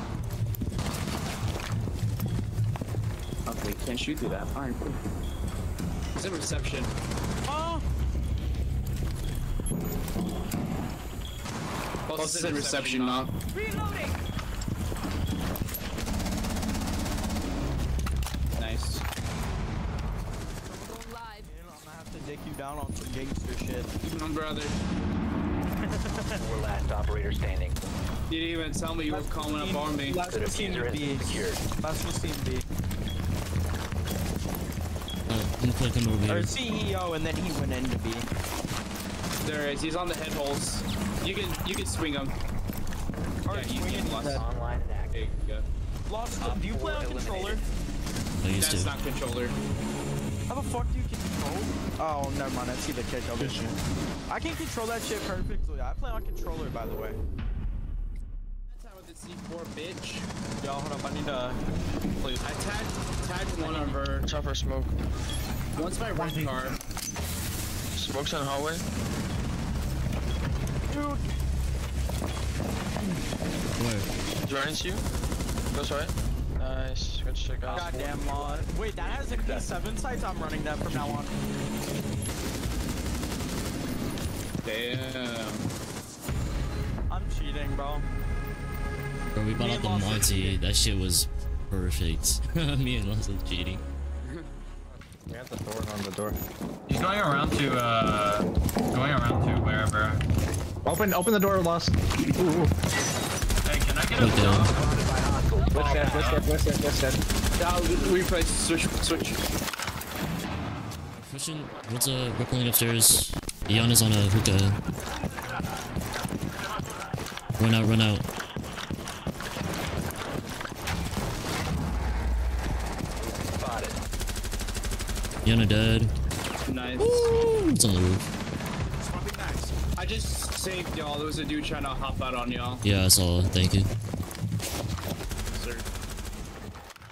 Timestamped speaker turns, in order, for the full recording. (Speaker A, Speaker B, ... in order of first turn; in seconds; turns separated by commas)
Speaker A: 3.5-5.0, Speaker A: 6.2-6.9, Speaker B: 7.5-7.8, Speaker A: 12.1-13.3, Speaker C: 12.2-12.7, Speaker B: 13.5-14.2, Speaker A: 18.6-19.1, Speaker B: 21.2-23.9, Speaker A: 24.0-24.8, Speaker B: 25.8-26.4, Speaker D: 26.1-27.8, Speaker A: 28.3-30.2, Speaker B: 29.1-32.6, Speaker D: 30.3-31.6, Speaker E: 35.3-36.5, Speaker B: 36.3-38.3, Speaker A: 39.4-42.4, Speaker B: 43.5-44.4, Speaker A: 43.5-44.4, Speaker D: 44.2-45.2, Speaker A: 45.1-45.7, Speaker B: 46.1-47.6, Speaker D: 46.4-47.7, Speaker E: 48.4-48.9, Speaker A: 48.6-49.5, Speaker B: 50.5-53.8, Speaker B: 54.3-57.2, Speaker A: 58.7-60.3, Speaker B: 60.6-61.6, Speaker B: 62.2-62.5, Speaker A: 62.4-64.3, Speaker F: 64.2-64.9, Speaker A: 65.8-66.8, Speaker F: 67.9-68.8, Speaker B: 70.9-71.3, Speaker E: 73.8-74.1, Speaker F: 74.4-75.0, Speaker F: 75.7-78.1, Speaker D: 77.6-79.7, Speaker B: 77.7-81.3, Speaker A: 84.6-85.7, Speaker B: 87.1-88.1, Speaker E: 89.3-93.8, Speaker B: 89.6-90.6, Speaker C: 95.3-96.4, Speaker G: 96.9-100.2, Speaker C: 100.8-102.7, Speaker G: 103.7-104.8, Speaker E: 104.2-104.7, Speaker D: 104.7-106.5, Speaker G: 105.8-106.4, Speaker C: 106.0-107.2, Speaker A: 107.6-109.4, Speaker E: 111.1-114.8, Speaker E: 117.6-118.2, Speaker D: 123.2-124.0, Speaker E: 125.5-126.1, Speaker A: 126.7-127.3, Speaker E: 127.0-128.2, Speaker B: 129.0-129.8, Speaker A: 129.9-132.8, Speaker E: 132.8-133.9, Speaker A: 135.4-135.9